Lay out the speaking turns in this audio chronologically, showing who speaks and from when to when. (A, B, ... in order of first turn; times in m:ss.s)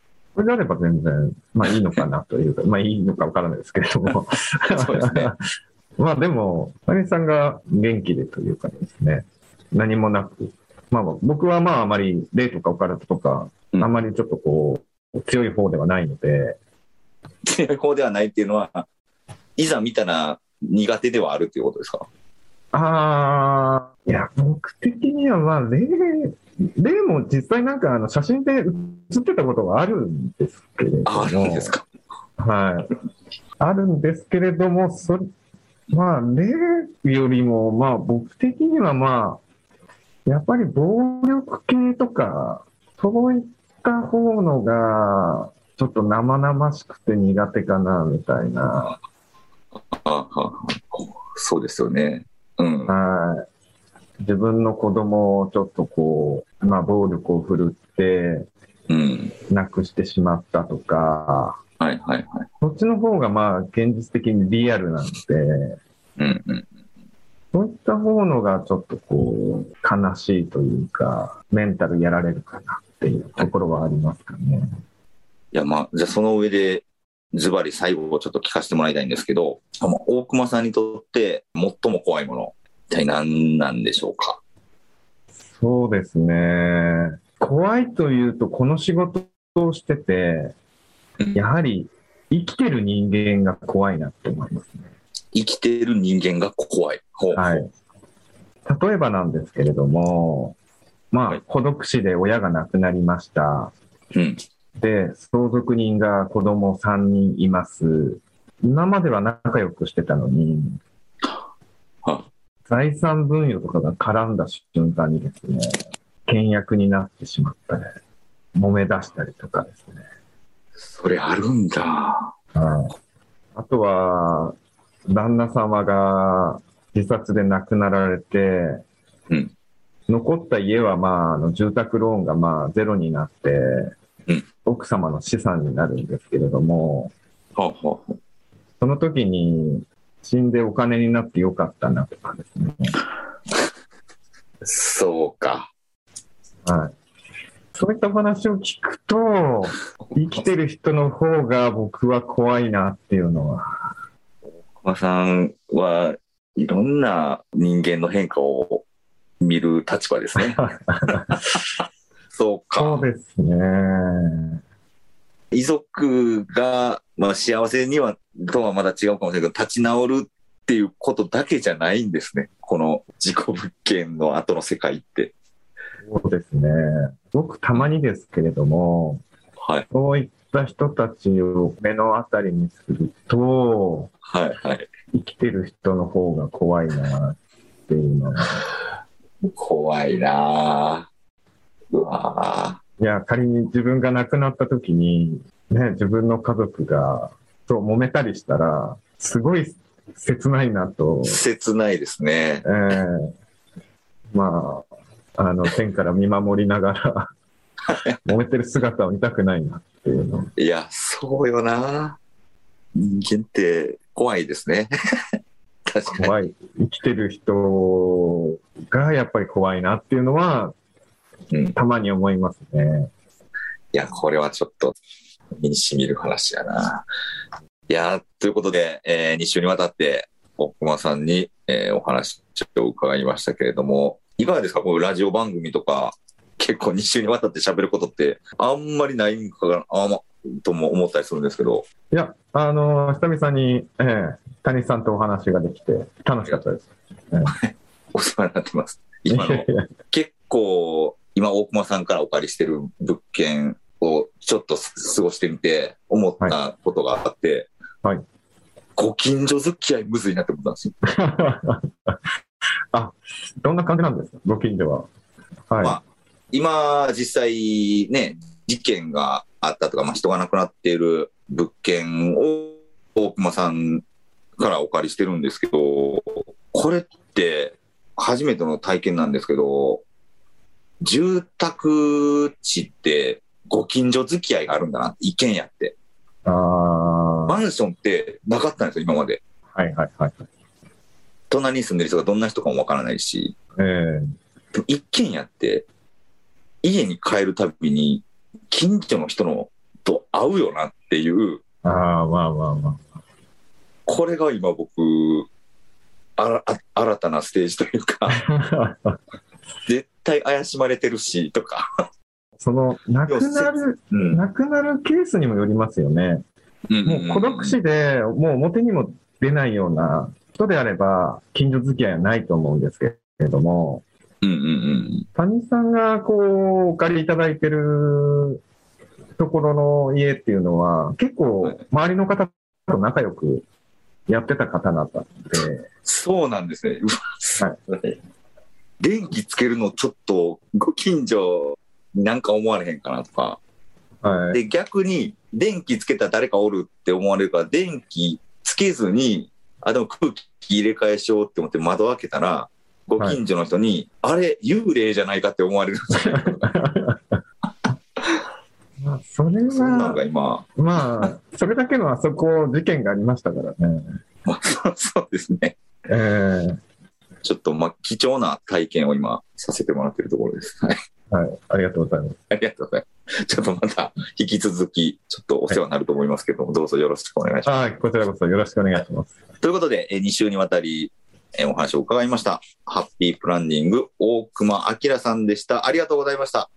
0:00.4-0:05.4 A
0:01.7-0:02.0 B
0:04.7-0:05.3 B
0:06.0-0:16.6 A
0:17.4-0:18.9 B
0:19.6-0:22.1 B
0:22.7-0:31.7 A
0:31.1-0:31.9 B
0:32.4-0:32.9 A
0:33.6-0:35.3 A
0:35.9-0:39.4 A
0:40.3-0:49.0 A
0:49.9-0:52.9 B
0:52.9-0:53.4 A
0:54.2-0:58.5 A
0:58.9-0:59.3 B
0:59.5-1:01.6 A
1:01.8-1:02.5 B
1:02.6-1:05.8 A
1:06.2-1:06.7 B
1:07.5-1:14.7 A
1:15.5-1:24.4 B
1:25.5-1:30.5 A
1:31.3-1:34.9 A
1:35.3-1:37.6 B
1:37.3-1:37.7 A
1:38.6-1:40.6 A
1:41.1-1:43.7 A
1:44.1-1:44.4 B
1:44.8-1:50.8 A
1:52.7-1:57.9 A
1:58.6-2:00.0 A
2:00.8-2:02.3 B
2:02.5-2:02.9 A
2:03.6-2:04.6 A
2:05.1-2:08.8 A
2:10.1-2:13.9 A
2:14.6-2:17.1 A
2:17.6-2:18.2 B
2:18.8-2:23.0 A
2:24.6-2:25.7 B
2:26.6-2:26.9 A
2:27.7-2:33.8 A
2:34.8-2:38.8 B
2:39.4-2:41.6 B
2:40.6-2:41.6 A
2:42.3-2:43.0 B
2:42.8-2:44.6 A
2:45.5-2:55.3 B
2:56.0-2:59.2 A
2:59.6-2:59.9 B
2:59.9-3:04.1 A
3:04.3-3:04.9 B
3:05.1-3:08.6 A
3:09.5-3:11.1 B
3:11.9-3:12.8 B
3:13.0-3:21.4 A
3:21.2-3:22.7 B
3:22.6-3:23.3 A
3:24.3-3:24.9 A
3:25.4-3:27.3 A
3:27.9-3:28.2 B
3:28.2-3:30.5 A
3:30.6-3:32.2 B
3:33.0-3:34.9 B
3:35.9-3:36.4 B
3:36.1-3:40.8 A
3:41.8-3:43.1 A
3:43.9-3:45.0 B
3:45.6-3:47.1 B
3:47.9-4:01.8 B
4:02.1-4:07.6 A
4:07.5-4:17.7 B
4:09.3-4:09.9 A
4:19.0-4:21.0 B
4:21.1-4:22.2 A
4:22.9-4:25.1 A
4:25.7-4:26.0 A
4:25.8-4:34.0 B
4:34.6-4:40.0 B
4:41.0-4:46.0 B
4:46.4-4:47.6 A
4:47.5-4:49.4 B
4:49.7-4:50.4 A
4:51.5-4:53.6 B
4:53.8-4:54.3 A
4:54.8-4:55.8 B
4:56.8-5:01.6 B
5:01.8-5:03.0 A
5:04.1-5:05.5 B
5:06.4-5:08.4 B
5:08.3-5:09.2 A
5:09.9-5:11.9 B
5:12.6-5:16.4 A
5:13.3-5:14.4 B
5:16.9-5:17.8 B
5:17.0-5:24.0 A
5:24.4-5:25.3 B
5:25.4-5:28.6 A
5:29.4-5:33.6 A
5:34.3-5:35.9 A
5:36.0-5:38.2 B
5:39.0-5:43.6 B
5:44.2-5:44.6 A
5:44.5-5:56.7 B
5:56.2-5:57.4 A
5:59.0-6:00.2 A
5:59.7-6:01.3 B
6:00.8-6:04.2 A
6:04.4-6:05.8 B
6:06.1-6:06.8 A
6:07.4-6:11.0 B
6:11.3-6:12.4 A
6:12.5-6:17.7 B
6:17.6-6:19.3 A
6:19.6-6:26.7 B